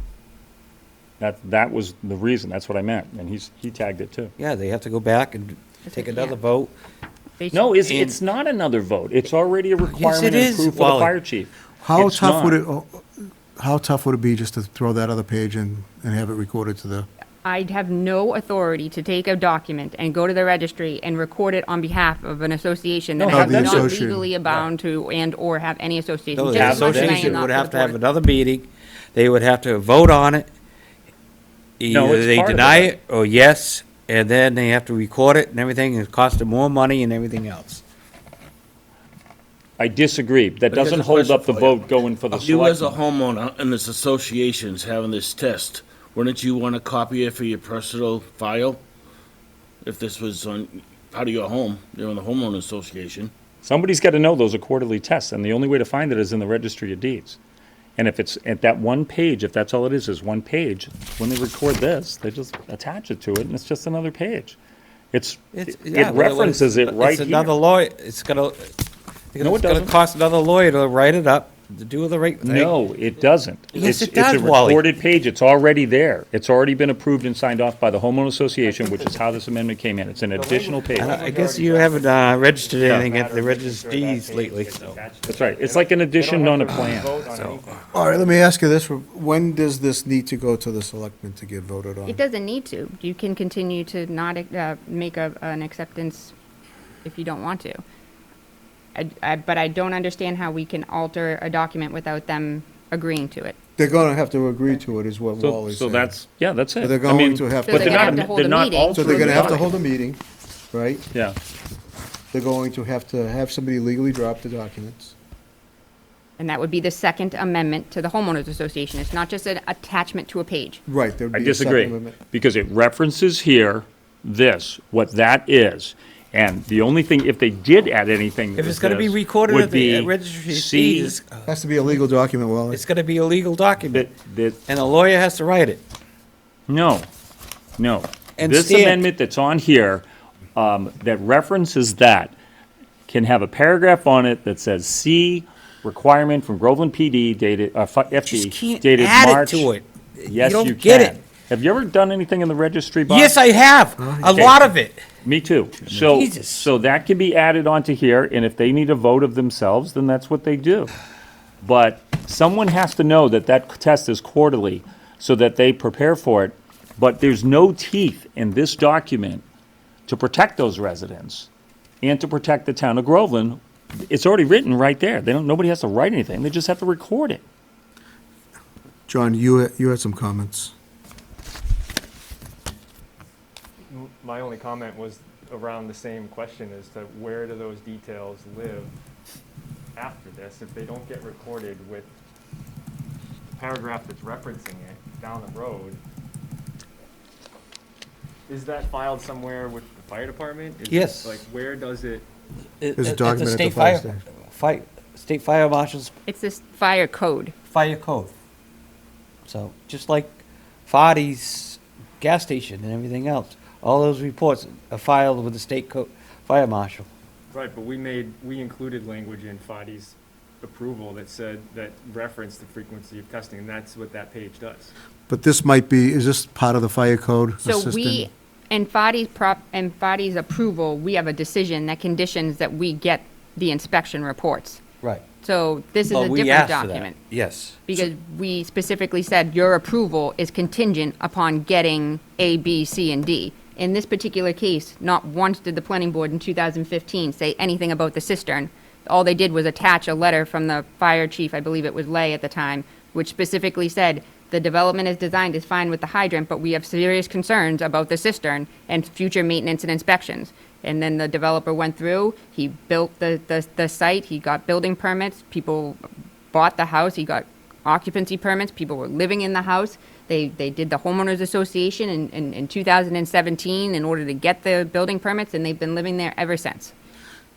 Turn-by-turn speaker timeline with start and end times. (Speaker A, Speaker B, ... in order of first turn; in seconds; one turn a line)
Speaker A: 1.2-4.3
Speaker B: 4.4-6.7
Speaker C: 5.8-6.4
Speaker C: 7.4-7.8
Speaker A: 7.5-12.6
Speaker B: 9.8-11.1
Speaker D: 11.8-17.1
Speaker C: 17.4-28.0
Speaker A: 23.2-23.9
Speaker D: 23.3-24.3
Speaker B: 26.3-30.5
Speaker A: 26.5-27.5
Speaker B: 31.8-37.8
Speaker A: 31.9-32.9
Speaker A: 39.8-43.0
Speaker E: 40.7-41.8
Speaker E: 42.3-48.8
Speaker E: 49.8-53.3
Speaker A: 53.6-57.4
Speaker A: 58.0-64.6
Speaker A: 65.1-67.5
Speaker B: 65.5-68.7
Speaker B: 69.3-72.7
Speaker A: 69.4-69.9
Speaker A: 72.4-81.2
Speaker B: 73.7-74.8
Speaker F: 78.6-79.3
Speaker F: 80.3-88.4
Speaker B: 80.9-85.0
Speaker A: 82.8-83.1
Speaker A: 85.2-87.1
Speaker B: 86.7-87.5
Speaker D: 87.9-92.2
Speaker C: 92.0-96.3
Speaker C: 97.0-97.8
Speaker C: 98.9-103.5
Speaker D: 103.8-106.1
Speaker A: 105.4-109.7
Speaker D: 106.8-108.3
Speaker C: 107.7-109.7
Speaker D: 108.9-110.2
Speaker D: 110.7-111.0
Speaker D: 112.3-115.1
Speaker C: 116.4-120.8
Speaker D: 120.9-122.2
Speaker A: 121.3-131.2
Speaker B: 128.6-131.4
Speaker D: 131.4-132.8
Speaker B: 132.7-134.1
Speaker A: 133.8-134.6
Speaker B: 134.7-135.8
Speaker A: 136.7-137.1
Speaker A: 137.8-142.3
Speaker B: 138.4-139.0
Speaker A: 143.1-149.7
Speaker B: 148.3-151.2
Speaker A: 150.2-153.4
Speaker B: 153.1-155.0
Speaker D: 154.0-154.6
Speaker A: 154.3-154.6
Speaker A: 155.2-160.9
Speaker B: 156.1-156.7
Speaker A: 161.6-169.4
Speaker A: 170.1-171.5
Speaker A: 172.0-177.4
Speaker D: 179.1-180.7
Speaker F: 183.9-188.9
Speaker F: 189.9-192.1
Speaker F: 193.5-196.0
Speaker F: 198.5-202.3
Speaker B: 200.9-201.4
Speaker B: 202.8-206.1
Speaker D: 203.0-204.2
Speaker C: 206.2-207.5
Speaker B: 207.7-208.3
Speaker B: 209.4-217.1
Speaker F: 217.5-224.9
Speaker D: 225.3-228.3
Speaker C: 227.6-234.8
Speaker C: 235.4-237.2
Speaker B: 236.1-237.8
Speaker C: 237.8-276.9